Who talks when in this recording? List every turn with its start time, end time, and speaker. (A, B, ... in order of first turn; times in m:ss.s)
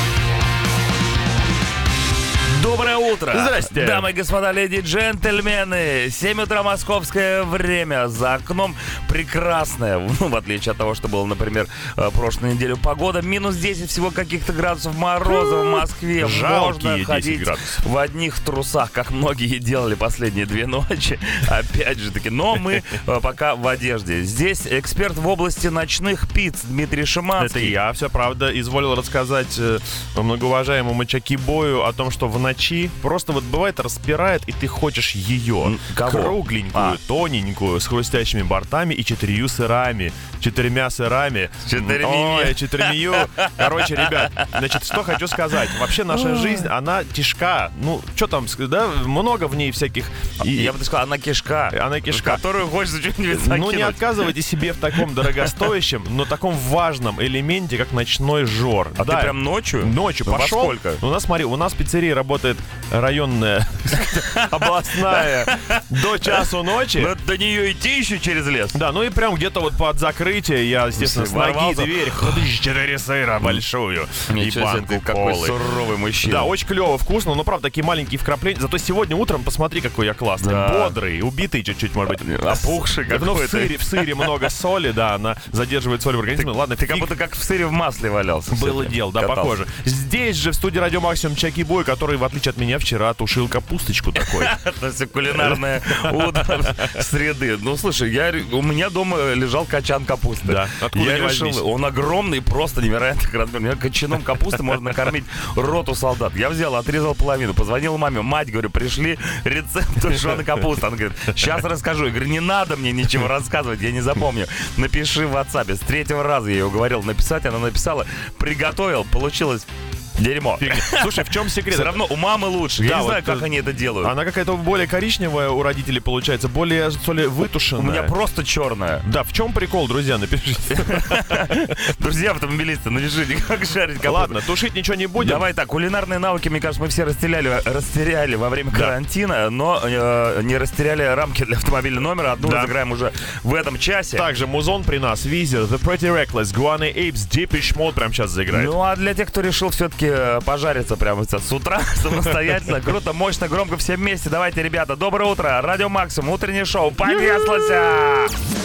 0:02.4-0:27.8 A
0:03.3-0:04.1 B
0:16.2-0:17.8 B
0:27.4-0:50.8 B
0:35.6-0:37.0 A
0:41.6-0:45.4 A
0:46.2-0:46.6 A
0:50.5-0:54.3 A
0:51.7-0:52.4 B
0:53.3-1:07.1 B
0:59.0-1:01.0 A
1:04.0-1:08.8 A
1:08.7-1:15.6 B
1:11.0-1:12.5 A
1:14.3-1:16.5 A
1:16.2-1:27.1 B
1:20.4-1:21.0 A
1:22.1-1:24.4 A
1:26.4-1:29.5 A
1:28.5-1:34.6 B
1:34.2-2:04.1 A
1:35.3-1:37.0 B
1:40.4-1:41.6 B
2:00.6-2:02.0 B
2:02.8-2:08.1 B
2:07.8-2:09.0 A
2:09.0-2:11.7 B
2:10.7-2:14.4 A
2:14.0-2:15.4 B
2:15.2-2:24.3 A
2:22.4-2:22.7 B
2:24.2-2:28.7 B
2:28.5-2:38.3 A